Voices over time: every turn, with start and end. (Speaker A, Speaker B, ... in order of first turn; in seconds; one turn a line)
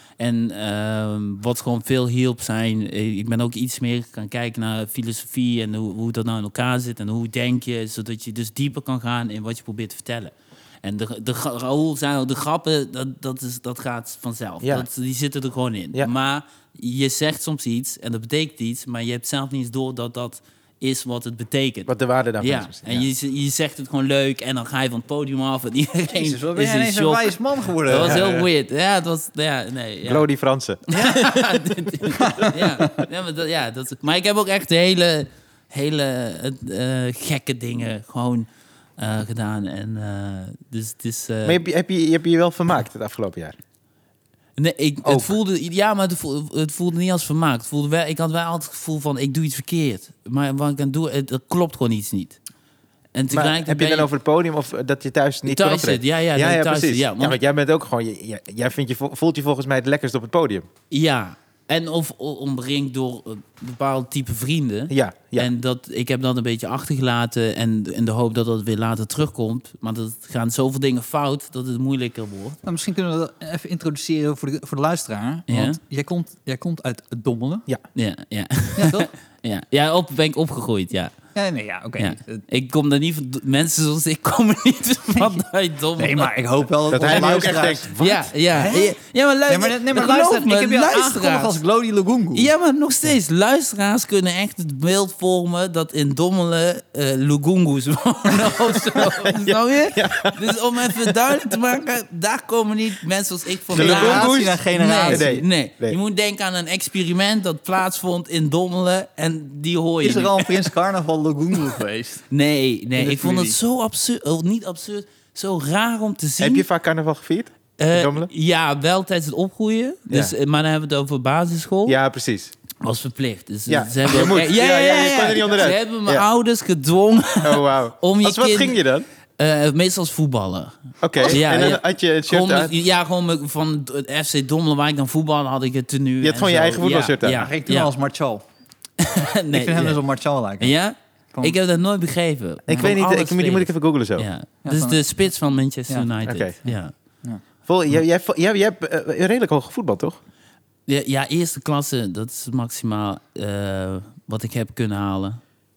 Speaker A: 0.2-21.9
Speaker B: 14.6-14.9
Speaker B: 21.9-23.1
Speaker A: 22.4-30.3
Speaker C: 26.1-28.5
Speaker B: 30.0-31.4
Speaker A: 30.9-38.5
Speaker C: 30.9-31.2
Speaker C: 32.1-33.0
Speaker A: 39.0-41.6
Speaker B: 41.5-43.6
Speaker A: 44.6-52.4
Speaker B: 45.0-45.3
Speaker A: 53.1-54.1
Speaker B: 53.3-60.7
Speaker A: 55.5-57.4
Speaker A: 60.9-72.6
Speaker B: 64.9-65.5
Speaker C: 72.6-77.7
Speaker A: 75.5-75.8
Speaker A: 78.0-81.1
Speaker C: 78.8-79.1
Speaker C: 81.3-82.4
Speaker A: 82.0-86.3
Speaker C: 85.2-85.4
Speaker C: 86.0-87.9
Speaker B: 86.9-88.3
Speaker A: 88.0-91.6
Speaker C: 88.5-89.0
Speaker C: 89.5-92.5
Speaker A: 92.3-110.7
Speaker B: 98.9-101.5
Speaker B: 103.7-106.0
Speaker C: 103.7-105.3
Speaker C: 110.0-112.3
Speaker A: 112.3-116.7
Speaker C: 113.0-113.6
Speaker B: 116.4-118.3
Speaker A: 117.8-122.0
Speaker B: 120.1-120.3
Speaker B: 121.9-122.5
Speaker A: 122.8-128.8
Speaker B: 123.7-126.2
Speaker B: 127.4-129.1
Speaker A: 129.4-137.9
Speaker B: 131.0-132.7
Speaker B: 136.2-137.5
Speaker C: 137.3-138.4
Speaker A: 139.0-140.0
Speaker C: 139.5-140.8
Speaker A: 140.6-146.9
Speaker B: 142.7-144.3
Speaker C: 144.6-145.0
Speaker B: 146.2-146.6
Speaker C: 146.7-147.4
Speaker B: 147.7-150.2
Speaker A: 150.9-155.4